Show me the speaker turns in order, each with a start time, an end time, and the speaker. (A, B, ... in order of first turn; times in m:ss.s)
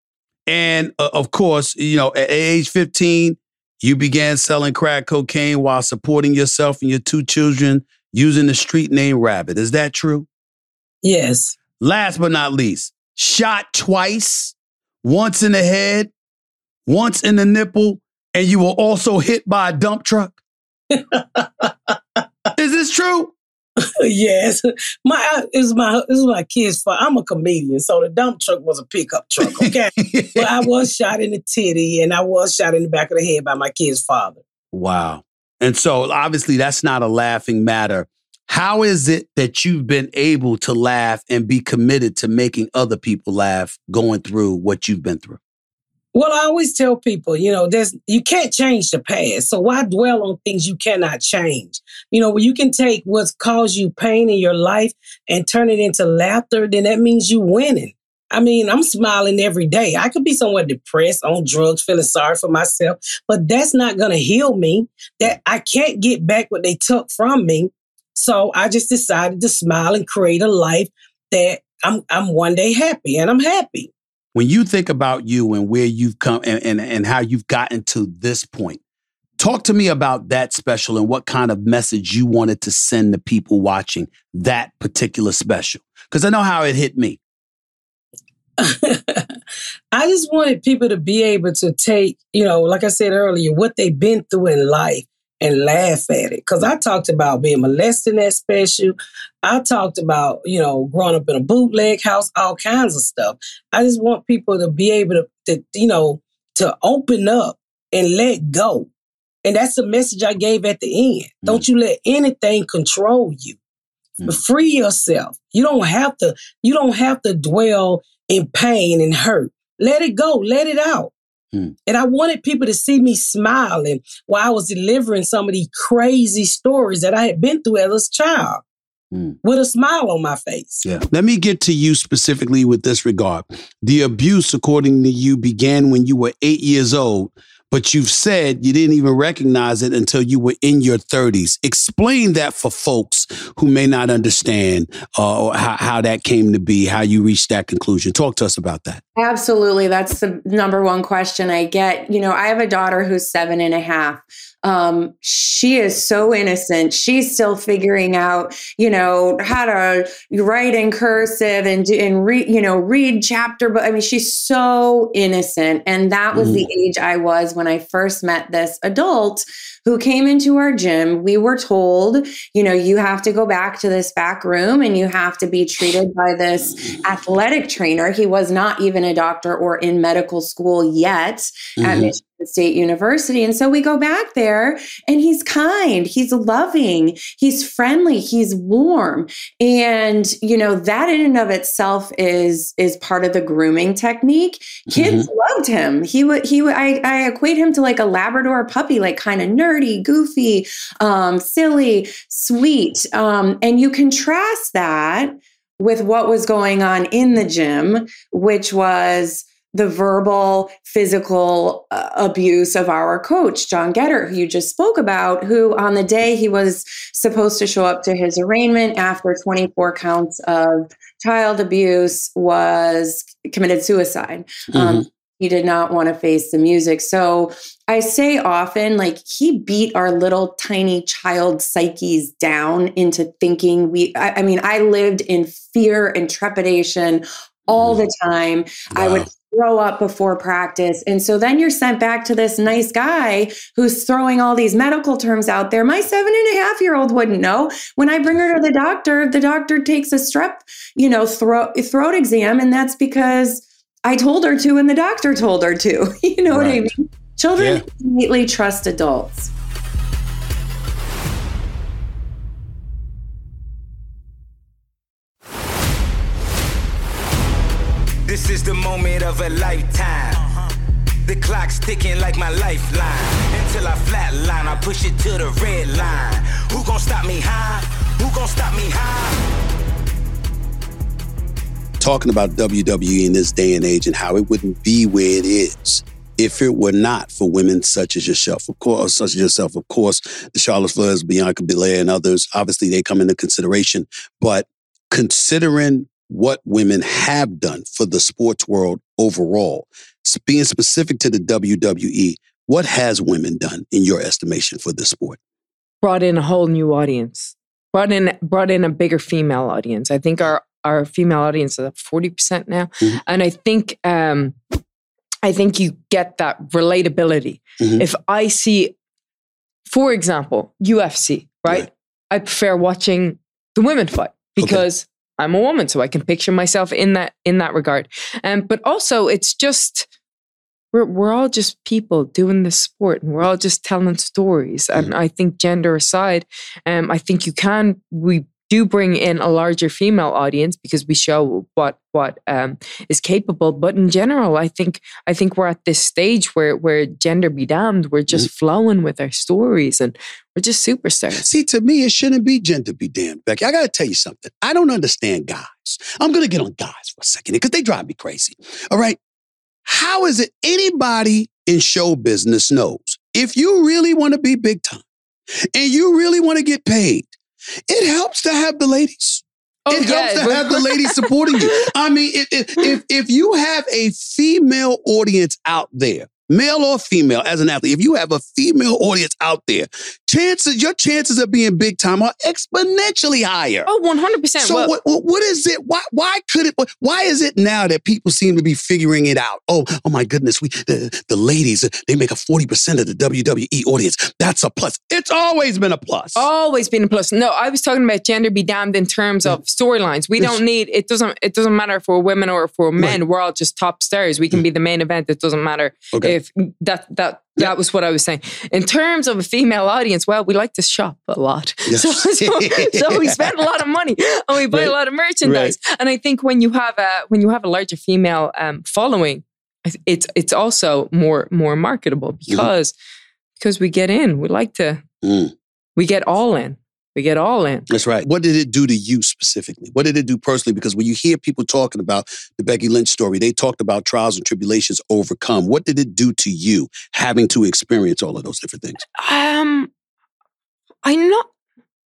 0:00.5-0:10.3 A
0:11.0-0:11.6 B
0:11.8-0:16.1 A
0:16.9-0:20.4 A
0:20.9-0:21.9 B
0:22.6-0:23.3 A
0:24.0-0:34.4 B
0:29.5-0:30.6 A
0:34.7-0:45.4 A
0:46.1-1:13.9 B
1:14.3-1:18.8 A
1:19.4-1:27.2 A
1:28.6-1:29.2 B
1:29.9-1:48.9 B
1:49.4-1:53.6 B
1:54.2-2:01.1 B
2:01.8-2:08.6 B
2:09.4-2:10.8 B
2:10.8-2:29.0 A
2:29.2-4:19.5 C
2:46.3-2:46.6 A
3:01.8-3:02.1 A
3:14.9-3:15.3 A
3:44.7-3:45.0 A
3:57.7-3:58.0 A
3:58.9-3:59.3 A
4:16.5-4:16.9 A
4:17.6-4:17.8 A
4:28.2-4:30.6 D
4:31.2-4:39.5 D
4:42.0-5:05.4 A
5:06.0-5:14.6 E
5:15.4-5:18.9 E
5:19.9-5:30.1 E
5:30.9-5:51.4 E
5:51.4-5:59.2 A
5:59.8-6:05.0 A
6:05.7-6:07.3 A
6:07.9-6:23.9 A
6:09.9-6:11.8 E
6:23.8-6:24.9 E
6:24.6-6:36.4 A
6:36.4-7:02.9 E
6:51.9-6:53.5 A
6:54.7-6:55.8 A
7:03.6-7:05.0 E
7:05.2-7:05.5 A
7:06.0-7:07.9 E
7:07.9-7:19.0 A
7:19.2-7:19.9 E
7:21.0-7:21.5 E